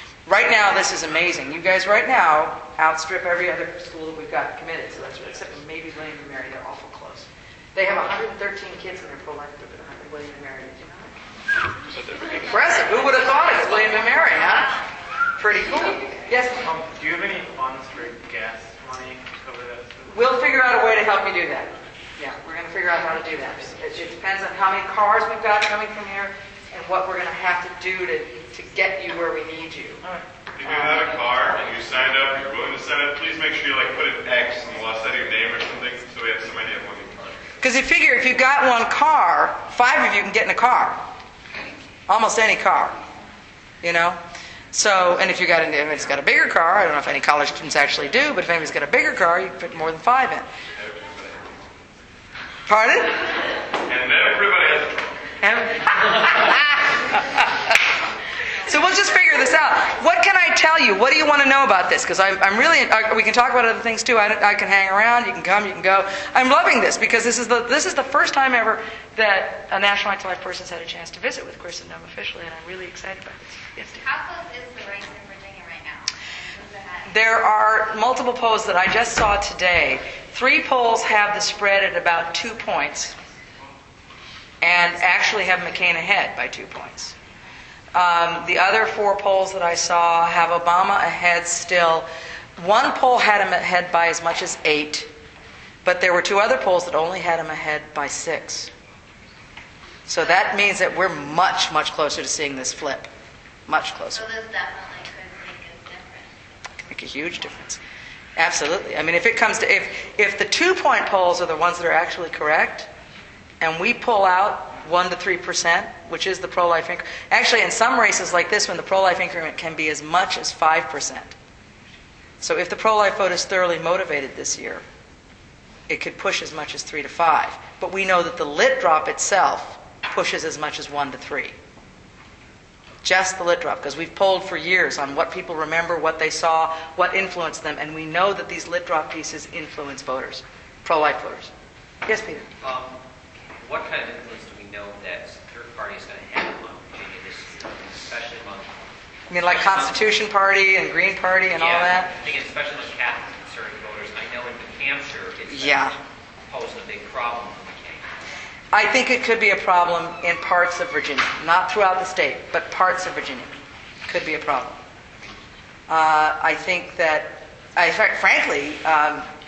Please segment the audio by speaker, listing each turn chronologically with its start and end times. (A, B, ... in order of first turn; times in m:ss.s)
0:00.3-0:11.2 A
0:11.9-0:12.8 B
0:12.4-0:14.8 A
0:15.4-0:16.6 A
0:16.6-0:20.1 C
0:20.1-0:30.0 A
0:30.6-0:37.6 B
0:30.6-0:31.3 A
0:37.6-0:41.0 A
0:42.1-0:43.0 A
0:43.8-0:44.2 A
0:44.7-0:50.5 A
0:50.8-0:51.5 B
0:52.7-0:53.2 A
0:53.8-0:55.1 B
0:55.4-0:57.8 A
0:58.7-1:14.0 A
1:14.0-1:17.0 D
1:17.1-1:23.1 A
1:24.6-1:27.1 A
1:27.9-1:35.1 A
1:35.8-1:38.7 A
1:40.1-1:43.1 A
1:43.7-1:44.3 A
1:44.2-1:46.3 D
1:46.9-1:47.8 A
1:48.4-1:52.9 A
1:53.6-2:01.4 A
2:02.4-2:04.8 A
2:05.9-2:11.6 A
2:13.0-2:21.5 A
2:22.1-2:22.5 A
2:22.6-2:23.0 E
2:23.5-2:28.7 E
2:29.3-2:32.1 A
2:29.5-2:30.0 E
2:31.6-2:35.9 E
2:35.5-2:35.9 A
2:36.5-2:38.1 E
2:38.7-2:43.5 A
2:44.1-2:44.8 A
2:45.9-2:49.3 A